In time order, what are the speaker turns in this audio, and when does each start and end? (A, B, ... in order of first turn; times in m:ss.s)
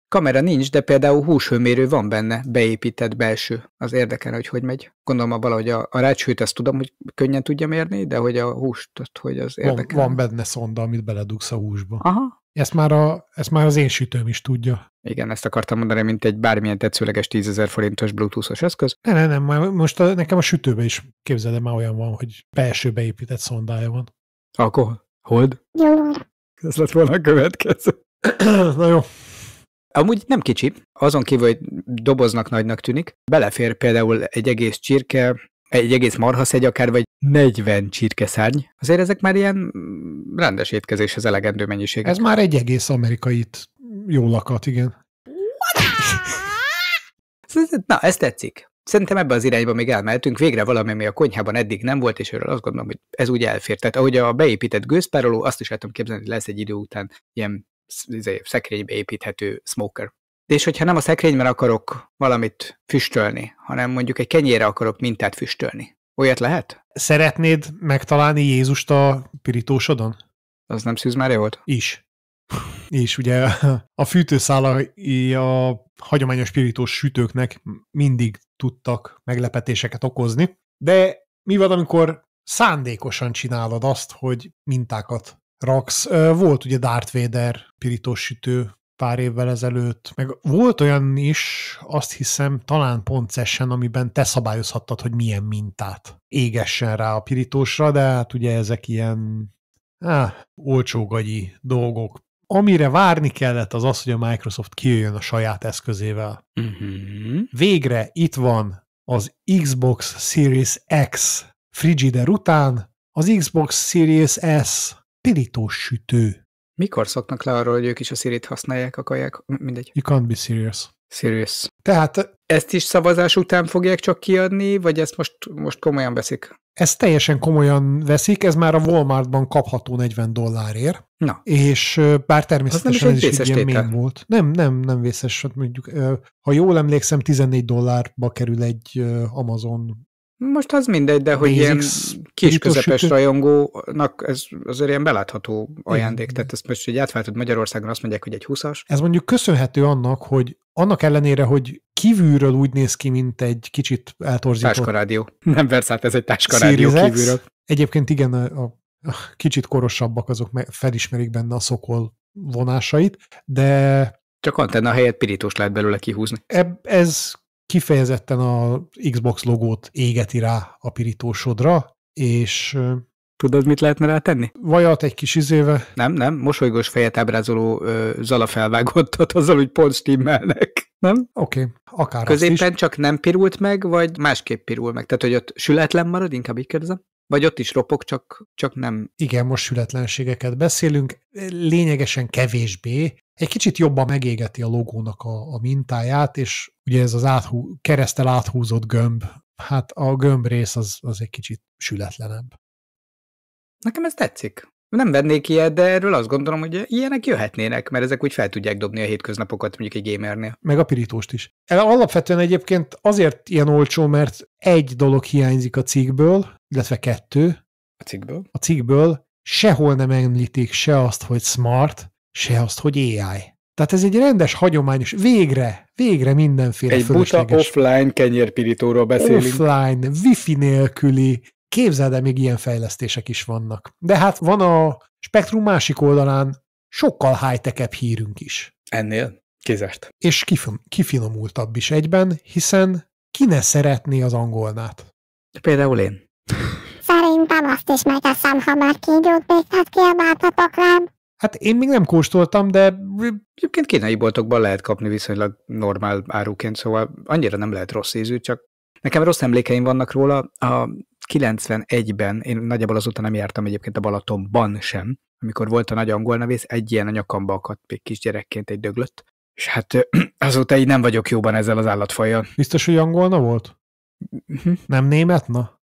0:00.1-0:10.2 A
0:09.6-0:12.0 B
0:12.0-0:12.3 A
0:12.5-0:14.8 B
0:15.0-0:18.9 A
0:19.0-0:24.1 B
0:24.6-0:25.6 A
0:25.7-0:26.2 C
0:26.6-0:28.0 A
0:28.2-0:29.1 B
0:29.9-0:42.2 A
0:42.0-0:45.0 B
0:47.5-1:06.8 A
1:07.0-1:10.2 B
1:10.7-1:11.6 A
1:11.7-1:46.4 B
1:46.6-1:47.5 A
1:47.5-1:56.4 B
1:56.8-1:59.9 A
1:59.9-2:00.9 B
2:01.1-2:01.7 A
2:01.8-2:02.3 B
2:02.5-2:06.5 A
2:06.8-2:20.0 B
2:12.7-2:13.9 A
2:20.4-2:28.8 A
2:21.4-2:23.1 B
2:25.9-2:26.4 B
2:28.9-2:34.9 B
2:34.6-2:37.4 A
2:36.4-2:44.1 B
2:44.4-2:46.4 A
2:46.5-2:53.0 B
2:53.4-2:54.5 A
2:54.6-2:55.9 B
2:56.0-3:01.3 A
3:01.4-3:02.7 B
3:02.2-3:09.1 A
3:09.2-3:22.5 B
3:23.8-3:30.6 A
3:30.6-3:37.6 B
3:38.0-3:38.4 A
3:38.5-3:47.7 B
3:46.9-3:49.6 A
3:49.2-3:58.7 B
3:58.9-4:00.1 A
4:00.2-4:05.0 B
4:05.5-4:06.8 A
4:07.0-4:11.1 C
4:11.4-4:13.4 B
4:13.6-4:32.5 A
4:32.6-4:33.7 B
4:34.5-4:34.8 A
4:34.9-4:35.7 B